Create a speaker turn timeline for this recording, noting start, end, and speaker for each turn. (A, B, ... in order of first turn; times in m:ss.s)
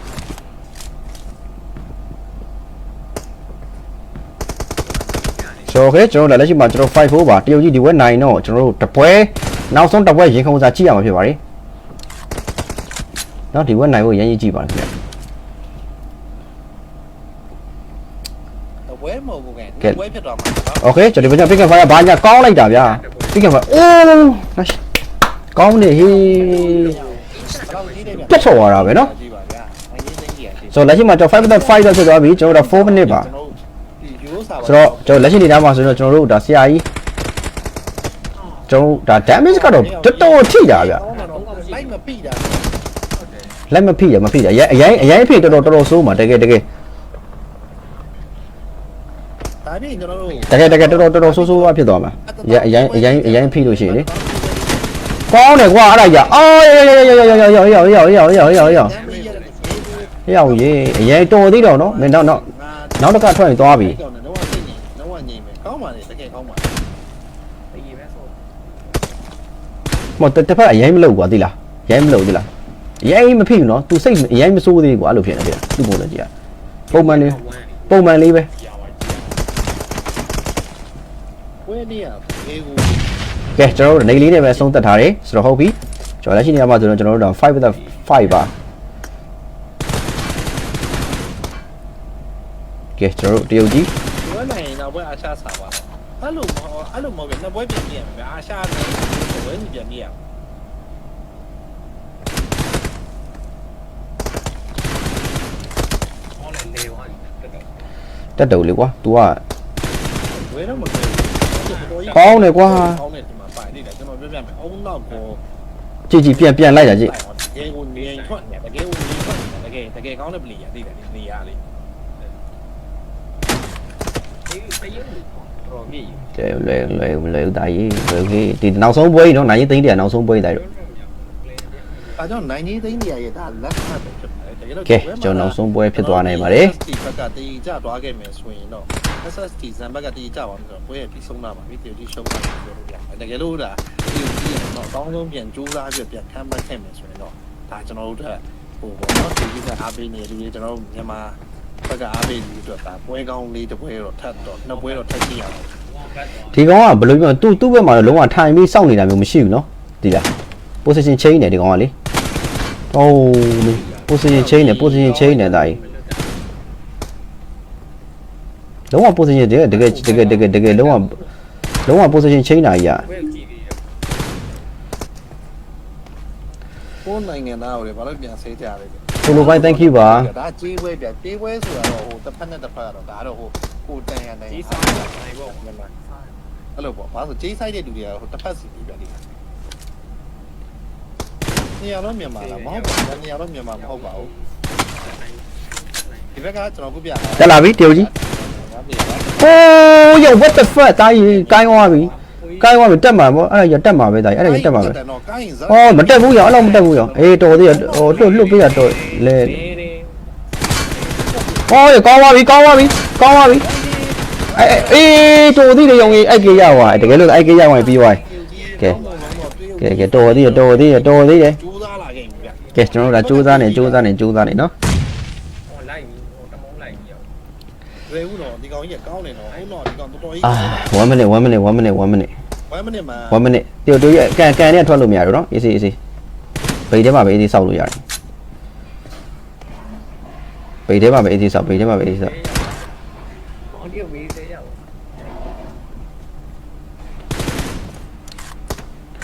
0:04.8-0:05.8 A
0:05.7-0:11.4 B
0:13.5-0:14.9 B
0:18.9-0:20.8 C
0:20.8-0:24.8 B
0:22.6-0:23.6 A
0:25.5-0:27.0 B
0:26.0-0:30.8 C
0:26.2-0:28.4 A
0:28.3-0:29.1 B
0:30.7-0:33.3 B
0:31.4-0:35.4 C
0:34.6-0:36.9 B
0:38.4-0:38.8 A
0:38.7-0:41.0 B
0:39.2-0:42.8 C
0:41.0-0:42.0 A
0:43.2-0:43.6 A
0:43.7-0:46.6 B
0:49.6-0:55.2 C
0:50.2-0:50.5 A
0:50.5-0:54.1 B
0:55.3-0:58.9 B
0:57.5-1:00.2 A
0:57.9-1:06.8 C
1:00.3-1:02.4 B
1:03.0-1:04.0 B
1:07.7-1:09.0 A
1:10.2-1:12.5 B
1:13.0-1:16.3 B
1:16.9-1:18.0 A
1:16.9-1:17.4 B
1:17.9-1:18.5 B
1:18.6-1:19.4 A
1:21.6-1:23.1 C
1:23.6-1:28.5 B
1:33.0-1:33.9 B
1:34.1-1:40.2 C
1:46.4-1:47.7 A
1:48.4-1:49.4 B
1:50.3-1:52.5 A
1:50.4-1:55.4 C
1:52.1-1:53.0 B
1:56.1-1:57.1 B
1:56.5-2:01.6 C
1:57.9-1:58.5 A
2:04.5-2:06.3 A
2:06.3-2:10.6 B
2:10.5-2:12.9 A
2:12.2-2:35.7 C
2:14.9-2:16.8 B
2:34.5-2:35.1 A
2:35.8-2:38.2 A
2:36.5-2:40.3 B
2:40.8-2:41.9 B
2:42.9-2:45.8 B
2:43.6-2:46.4 A
2:48.9-2:51.2 B
2:49.7-2:51.3 A
2:51.9-2:53.0 B
2:53.0-2:54.0 A
2:57.0-3:05.9 C
2:59.2-3:00.3 B
3:04.5-3:06.4 A
3:06.8-3:09.2 C
3:11.8-3:14.3 C
3:12.1-3:16.5 A
3:16.4-3:19.4 C
3:17.4-3:18.1 B
3:19.4-3:25.0 B
3:21.4-3:22.9 A
3:21.6-3:22.1 C
3:24.4-3:28.8 C
3:25.7-3:29.7 B
3:28.4-3:30.2 A
3:30.8-3:32.0 A
3:31.7-3:33.7 B
3:33.6-3:35.1 C
3:34.6-3:38.2 B
3:36.1-3:39.7 A
3:36.2-3:44.1 C
3:39.8-3:41.6 B
3:42.3-3:43.3 A
3:42.8-3:44.7 B
3:45.7-3:47.3 A
3:48.1-3:50.9 C
3:50.4-3:52.3 B
3:52.7-3:53.4 C
3:53.3-3:56.0 B
3:56.9-3:58.0 B
4:00.9-4:02.3 B
4:01.9-4:03.0 A
4:03.7-4:04.9 A